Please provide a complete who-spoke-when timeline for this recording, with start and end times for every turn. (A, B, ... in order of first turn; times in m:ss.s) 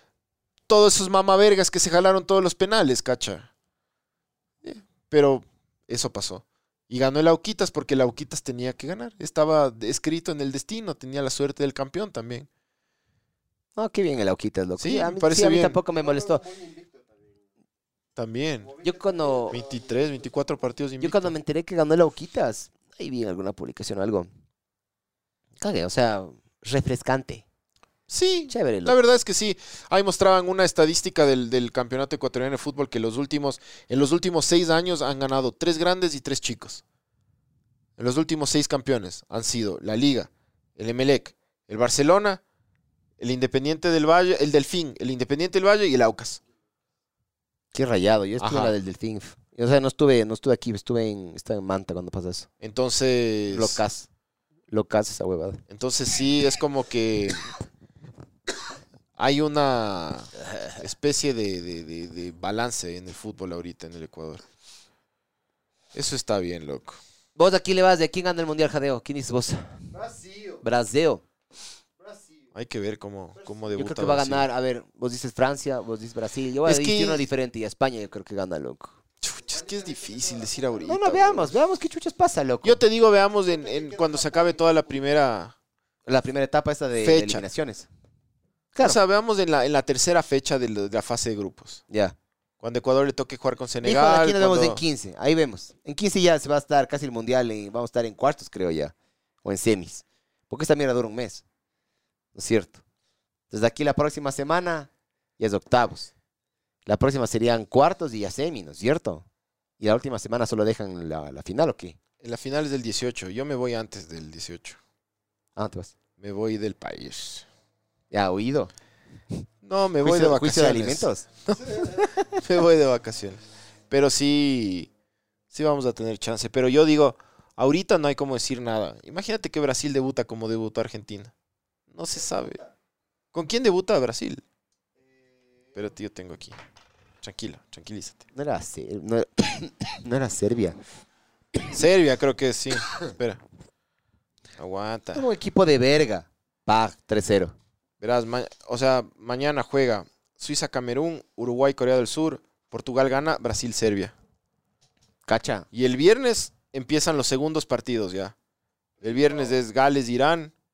0:00.7-0:03.5 A
0:04.6-0:12.5 A
0:13.8-0:16.4 B
0:14.8-0:15.8 A
0:15.9-0:17.5 C
0:18.2-0:18.7 A
0:18.6-0:20.5 C
0:18.8-0:19.6 B
0:19.5-0:21.3 A
0:21.0-0:24.3 B
0:25.6-0:27.4 B
0:28.1-0:36.8 A
0:28.5-0:29.0 B
0:38.0-0:42.4 A
0:43.2-0:46.4 A
0:47.7-0:52.5 B
0:48.4-0:48.8 A
0:52.6-0:53.8 A
0:53.5-0:54.1 B
0:54.7-0:55.6 B
0:55.7-0:57.5 A
0:59.2-1:04.4 A
1:05.9-1:07.0 A
1:07.4-1:09.8 B
1:09.9-1:10.6 C
1:10.6-1:11.2 B
1:12.0-1:12.5 C
1:12.6-1:14.5 A
1:13.4-1:13.8 C
1:13.7-1:19.0 B
1:16.6-1:17.2 A
1:19.2-1:21.5 A
1:19.4-1:21.2 C
1:20.9-1:22.8 B
1:22.6-1:25.6 A
1:23.5-1:25.0 C
1:26.1-1:27.9 B
1:27.0-1:27.4 A
1:28.8-1:31.8 A
1:31.9-1:32.2 B
1:32.6-1:34.8 A
1:33.8-1:41.4 B
1:42.3-1:42.8 B
1:43.5-1:46.1 B
1:46.9-1:49.2 B
1:49.8-1:52.0 B
1:52.2-1:54.8 A
1:55.6-1:56.0 B
1:56.2-1:57.5 A
1:58.1-1:58.7 B
1:59.6-2:04.9 A
2:00.0-2:01.3 B
2:05.5-2:11.3 A
2:11.9-2:12.6 A
2:12.1-2:12.7 C
2:13.3-2:14.4 A
2:15.0-2:16.0 C
2:15.8-2:16.6 A
2:17.2-2:18.2 A
2:18.4-2:20.8 B
2:21.7-2:23.4 A
2:24.6-2:25.2 A
2:25.1-2:27.5 B
2:28.0-2:34.1 A
2:35.3-2:35.7 B
2:35.7-2:38.4 A
2:39.0-2:39.6 C
2:39.0-2:40.5 A